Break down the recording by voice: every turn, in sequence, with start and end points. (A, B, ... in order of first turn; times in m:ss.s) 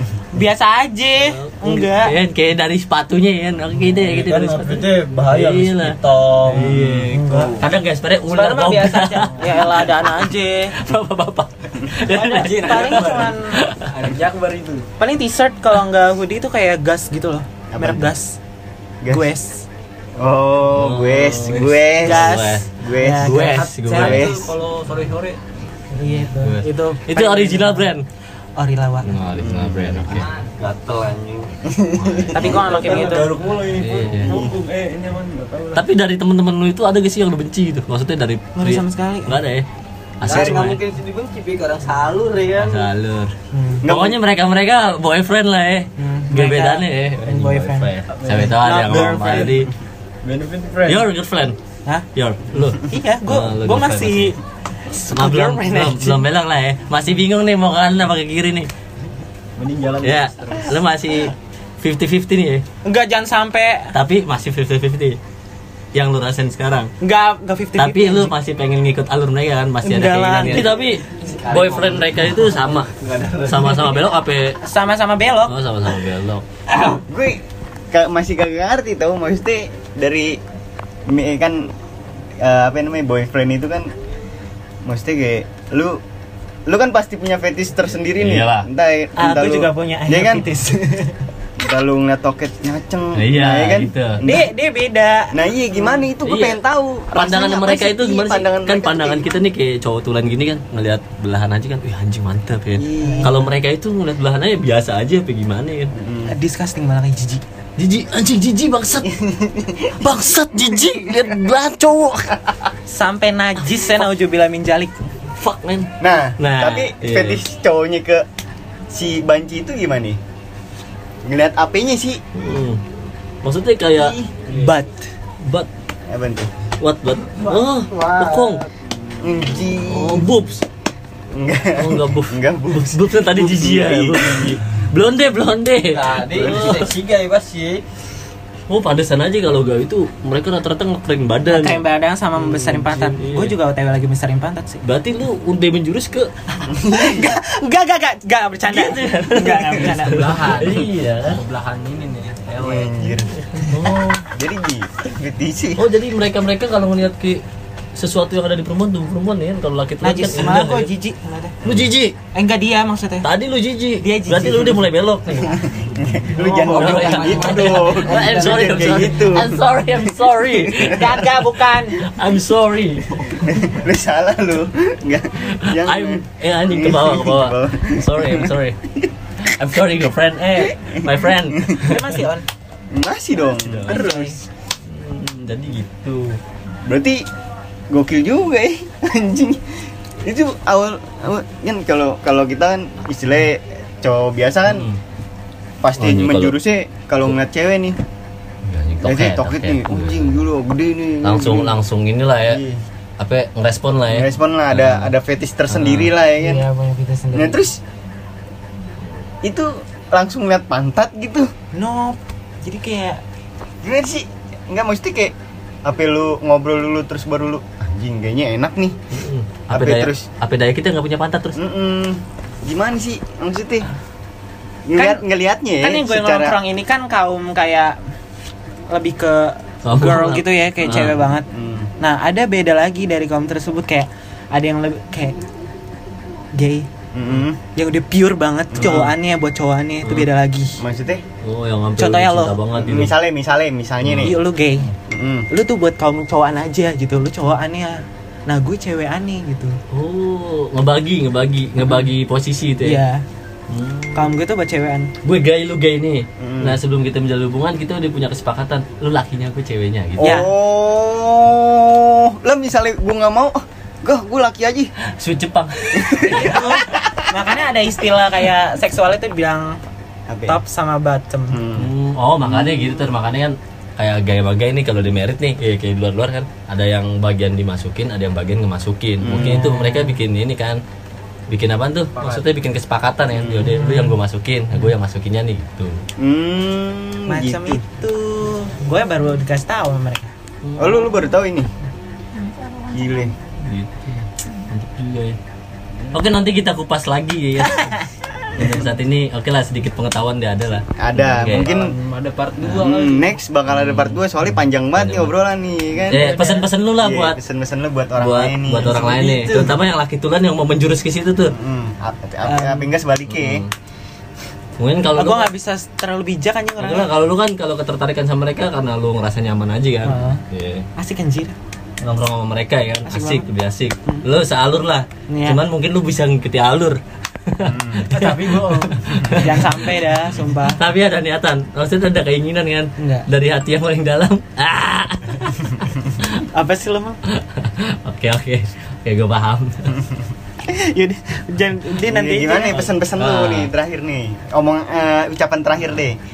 0:00.3-0:02.2 A
0:01.2-0:13.9 B
0:03.9-0:07.7 C
0:07.1-0:07.6 A
0:08.3-0:10.8 A
0:12.1-0:13.6 A
0:12.1-0:14.9 D
0:15.0-0:18.4 A
0:17.7-0:18.1 E
0:19.0-0:19.3 E
0:19.1-0:19.7 A
0:20.2-0:24.5 E
0:20.7-0:24.4 B
0:22.0-0:24.2 A
0:23.6-0:25.4 D
0:26.0-0:27.9 A
0:26.3-0:28.0 B
0:28.6-0:29.1 A
0:29.0-0:30.3 B
0:29.4-0:30.3 E
0:30.6-0:31.6 C
0:31.7-0:32.6 E
0:32.0-0:32.5 B
0:32.3-0:33.3 A
0:32.3-0:33.4 C
0:32.6-0:35.8 D
0:33.7-0:34.4 B
0:34.3-0:34.5 E
0:35.8-0:39.7 B
0:38.6-0:39.4 A
0:40.2-0:40.8 B
0:40.2-0:42.9 C
0:40.2-0:40.6 E
0:42.6-0:49.7 B
0:43.5-0:43.8 A
0:43.8-0:44.2 E
0:46.0-0:47.9 A
0:48.2-0:48.5 D
0:48.5-0:49.7 A
0:50.2-0:51.0 D
0:50.9-0:51.6 B
0:52.2-0:54.3 B
0:52.9-0:54.4 A
0:54.9-0:56.2 A
0:55.1-0:58.7 B
0:59.6-1:00.8 D
1:00.0-1:02.6 B
1:02.8-1:03.9 A
1:03.9-1:05.2 B
1:05.9-1:06.9 B
1:07.0-1:08.3 A
1:07.8-1:12.9 B
1:09.8-1:10.8 A
1:10.5-1:14.0 C
1:13.4-1:14.6 B
1:14.6-1:15.5 A
1:15.5-1:16.4 B
1:16.7-1:17.0 C
1:17.1-1:20.4 E
1:21.1-1:21.7 E
1:22.4-1:23.9 E
1:24.8-1:26.0 E
1:26.7-1:30.5 E
1:28.2-1:28.7 B
1:29.2-1:31.2 A
1:31.6-1:34.5 E
1:33.2-1:34.2 B
1:34.2-1:35.4 A
1:35.3-1:39.2 E
1:36.2-1:36.6 B
1:37.1-1:45.9 B
1:42.8-1:43.3 E
1:43.0-1:43.5 A
1:45.9-1:46.3 E
1:46.3-1:47.4 A
1:47.8-1:49.1 B
1:49.0-1:50.2 E
1:50.0-1:52.4 B
1:50.7-1:51.3 E
1:52.9-1:55.0 A
1:55.4-1:57.4 B
1:56.0-1:58.2 E
1:58.9-2:00.2 E
2:01.2-2:02.2 E
2:02.4-2:02.8 B
2:03.4-2:04.2 B
2:04.0-2:04.3 E
2:04.5-2:05.1 A
2:05.4-2:05.7 B
2:06.1-2:06.5 E
2:06.8-2:08.6 B
2:07.4-2:08.6 C
2:09.2-2:10.3 E
2:09.8-2:10.6 B
2:11.3-2:14.6 E
2:11.8-2:16.9 B
2:15.9-2:17.8 C
2:18.7-2:21.8 B
2:21.5-2:24.8 A
2:22.4-2:23.6 B
2:24.8-2:26.3 B
2:26.7-2:27.3 E
2:26.8-2:30.5 A
2:28.7-2:31.4 B
2:30.0-2:32.9 D
2:32.6-2:33.3 E
2:33.5-2:34.3 B
2:34.3-2:35.8 E
2:35.8-2:37.4 B
2:38.0-2:40.9 B
2:40.0-2:41.6 A
2:41.6-2:41.9 E
2:41.6-2:42.2 B
2:42.3-2:43.3 A
2:43.2-2:45.6 B
2:44.0-2:44.9 A
2:45.6-2:49.6 E
2:46.5-2:48.9 C
2:46.6-2:53.2 B
2:50.4-2:51.0 E
2:50.8-2:52.0 A
2:53.4-2:58.5 E
2:55.4-2:58.8 B
2:59.4-3:02.2 B
3:01.8-3:02.5 A
3:02.9-3:04.1 E
3:03.5-3:06.4 B
3:03.9-3:04.4 A
3:06.8-3:07.2 E
3:07.9-3:14.9 E
3:14.7-3:15.0 B
3:15.8-3:18.0 E
3:16.0-3:16.6 B
3:18.7-3:20.4 B
3:19.0-3:21.8 E
3:21.2-3:22.6 B
3:22.4-3:22.8 E
3:23.2-3:25.1 B
3:24.1-3:26.6 E
3:25.7-3:26.1 B
3:26.4-3:27.7 A
3:27.3-3:27.8 E
3:29.4-3:31.5 E
3:31.7-3:33.2 A
3:33.8-3:35.3 E
3:35.8-3:39.0 E
3:39.1-3:41.6 B
3:39.7-3:40.3 E
3:41.6-3:43.9 E
3:44.9-3:46.6 E
3:45.0-3:45.2 A
3:45.8-3:48.0 A
3:48.9-3:51.5 A
3:49.8-3:51.2 B
3:51.5-3:51.9 E
3:52.0-3:55.4 A
3:56.6-3:56.9 A
3:57.1-3:57.6 E
3:57.8-4:00.8 A
3:58.7-3:59.0 E
3:58.8-3:59.1 B
4:00.8-4:01.2 E
4:01.4-4:03.1 B
4:02.0-4:02.6 A
4:02.8-4:04.4 E
4:04.0-4:04.4 B
4:04.2-4:04.9 A
4:05.1-4:05.5 E
4:05.5-4:09.8 A
4:09.9-4:13.0 B
4:12.8-4:13.2 A
4:13.7-4:14.3 B
4:14.2-4:15.1 A
4:15.2-4:20.4 B
4:16.4-4:16.8 E
4:20.2-4:24.9 E
4:20.2-4:20.5 A
4:25.0-4:27.0 B
4:26.0-4:27.1 E
4:26.3-4:29.8 A
4:30.3-4:30.6 E
4:30.5-4:31.6 A
4:31.5-4:31.9 E
4:31.8-4:40.8 B
4:32.5-4:32.9 E
4:39.2-4:39.6 E
4:39.4-4:40.2 A
4:41.5-4:46.0 B
4:43.3-4:43.7 E
4:43.6-4:44.2 A
4:46.2-4:47.8 E
4:47.3-4:50.3 A
4:50.6-4:51.0 B
4:50.8-4:51.7 E
4:52.8-4:53.3 E
4:53.6-4:55.4 B
4:56.1-4:58.0 B
4:57.8-4:58.0 A
4:58.6-5:01.7 B
4:58.6-4:58.9 D
5:01.0-5:01.9 E
5:01.4-5:03.4 D
5:02.6-5:06.4 E
5:03.7-5:04.2 B
5:05.0-5:05.3 B
5:06.1-5:06.6 D
5:06.1-5:07.4 B
5:07.0-5:09.7 E
5:08.2-5:11.6 B
5:11.5-5:13.6 E
5:12.4-5:12.9 A
5:13.3-5:13.7 B
5:14.8-5:15.5 B
5:15.2-5:17.2 A
5:16.8-5:20.9 B
5:20.0-5:20.4 A
5:21.0-5:21.6 A
5:22.0-5:29.9 B
5:23.1-5:23.5 A
5:25.3-5:25.6 A
5:27.6-5:28.1 E
5:28.1-5:29.4 D
5:28.2-5:30.8 A
5:30.7-5:36.4 B
5:33.0-5:33.3 A
5:36.5-5:37.2 A
5:37.3-5:40.0 B
5:40.7-5:42.9 A
5:42.1-5:46.2 E
5:43.2-5:43.7 B